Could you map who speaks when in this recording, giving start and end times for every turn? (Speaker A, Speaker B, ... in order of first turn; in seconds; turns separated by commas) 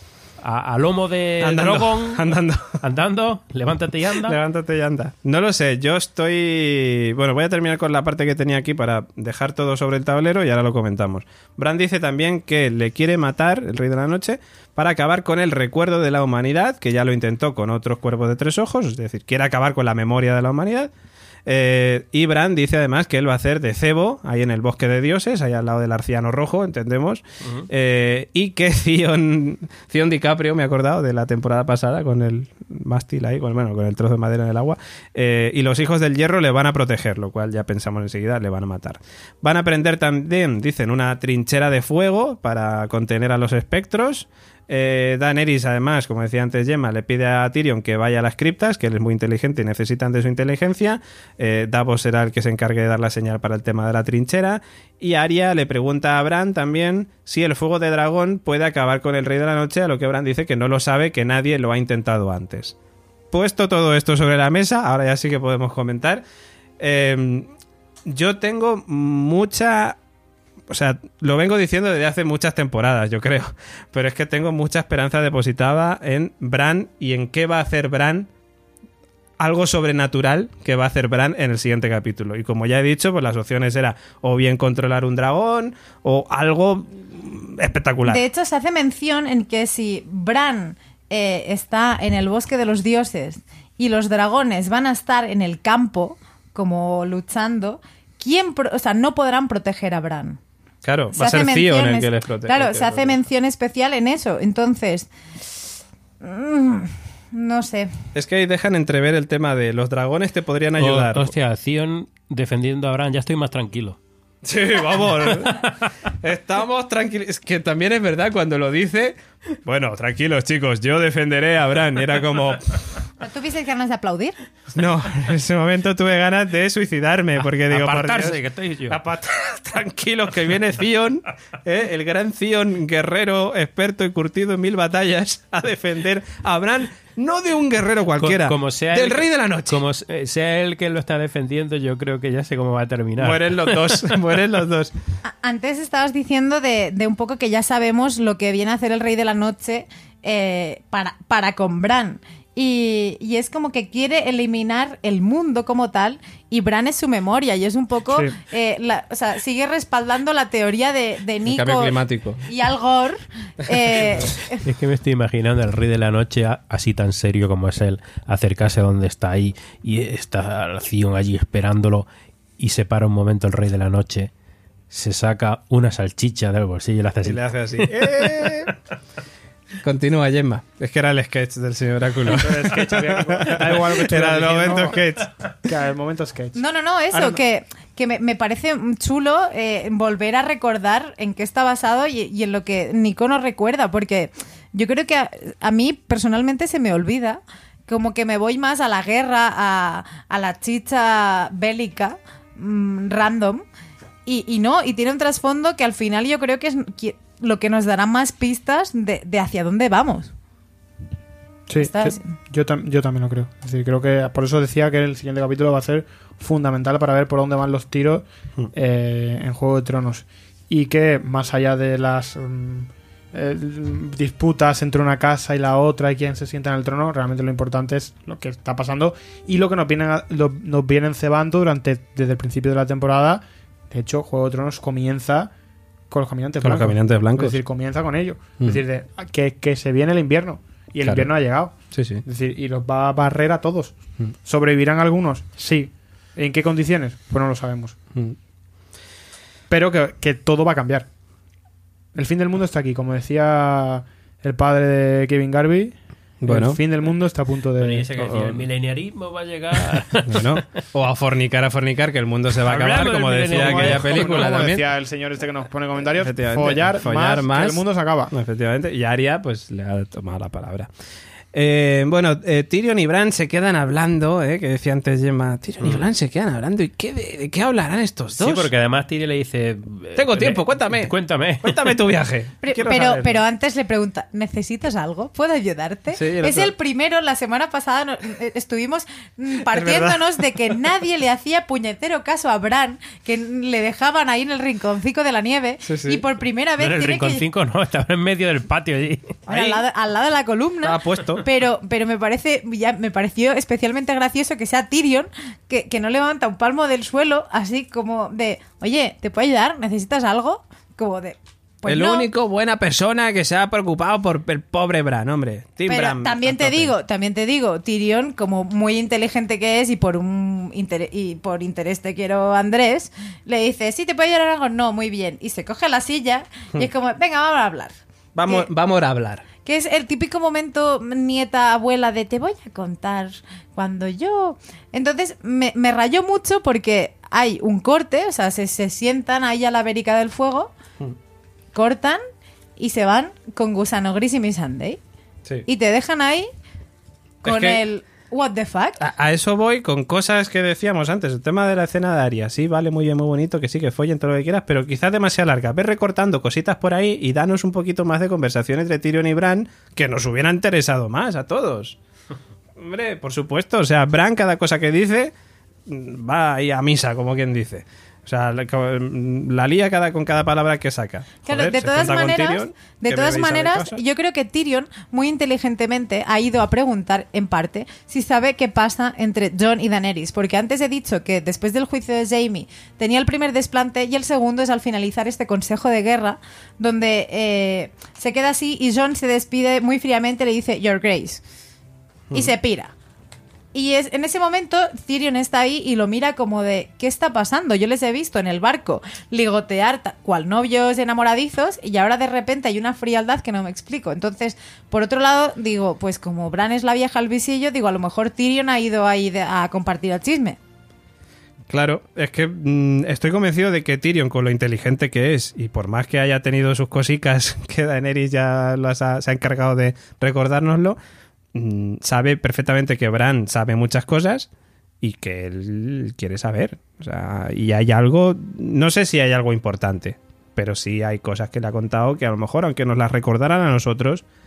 Speaker A: 0.4-4.4, Speaker B: 1.4-2.8, Speaker B: 4.2-20.9, Speaker B: 21.5-62.8, Speaker A: 27.4-27.7, Speaker B: 63.3-66.2, Speaker B: 66.8-67.5, Speaker B: 68.1-70.0, Speaker B: 70.7-78.3, Speaker B: 79.4-88.2, Speaker C: 88.0-100.4, Speaker B: 100.8-103.2, Speaker C: 101.2-105.1, Speaker C: 106.2-107.9, Speaker B: 108.1-111.3, Speaker A: 110.8-114.0, Speaker B: 114.4-115.6, Speaker A: 115.4-115.7, Speaker B: 116.2-122.8, Speaker C: 123.2-124.4, Speaker B: 124.8-128.4, Speaker A: 127.7-129.0, Speaker B: 128.9-139.8, Speaker A: 138.2-144.2, Speaker B: 143.2-144.9, Speaker C: 145.2-164.7, Speaker D: 158.1-158.3, Speaker B: 161.5-162.4, Speaker A: 164.7-172.1, Speaker A: 172.6-174.3, Speaker A: 174.9-177.9, Speaker B: 177.2-178.7, Speaker B: 179.8-185.3, Speaker D: 182.3-185.0, Speaker D: 185.6-187.4, Speaker C: 186.6-203.6, Speaker C: 204.3-210.3, Speaker D: 211.7-235.5, Speaker C: 211.8-212.3, Speaker D: 236.1-248.0, Speaker B: 236.6-237.6, Speaker B: 241.0-241.3, Speaker B: 241.9-242.2, Speaker D: 249.7-251.1, Speaker D: 252.2-258.1, Speaker B: 256.4-256.8, Speaker A: 257.8-260.6, Speaker B: 258.2-258.6, Speaker B: 260.3-264.8, Speaker A: 262.6-264.7, Speaker D: 263.5-268.3, Speaker B: 266.2-270.9, Speaker B: 271.5-278.7, Speaker A: 278.4-282.0, Speaker B: 280.2-283.4, Speaker C: 282.6-297.5, Speaker B: 286.1-286.7, Speaker B: 289.7-290.4, Speaker B: 295.9-296.2, Speaker A: 296.8-299.4, Speaker B: 299.5-299.8, Speaker C: 299.5-312.3, Speaker B: 300.8-301.4, Speaker B: 311.9-316.9, Speaker C: 315.9-328.0, Speaker B: 328.4-329.4, Speaker C: 329.6-340.7, Speaker C: 341.7-342.2, Speaker C: 342.8-345.0, Speaker C: 345.7-346.5, Speaker B: 347.4-347.8, Speaker C: 347.4-349.0, Speaker B: 349.0-362.0, Speaker B: 362.8-365.3, Speaker B: 365.9-374.0, Speaker C: 371.4-391.4, Speaker C: 392.3-392.9, Speaker C: 393.7-410.6, Speaker B: 411.7-421.0, Speaker B: 421.5-424.5, Speaker B: 425.0-434.2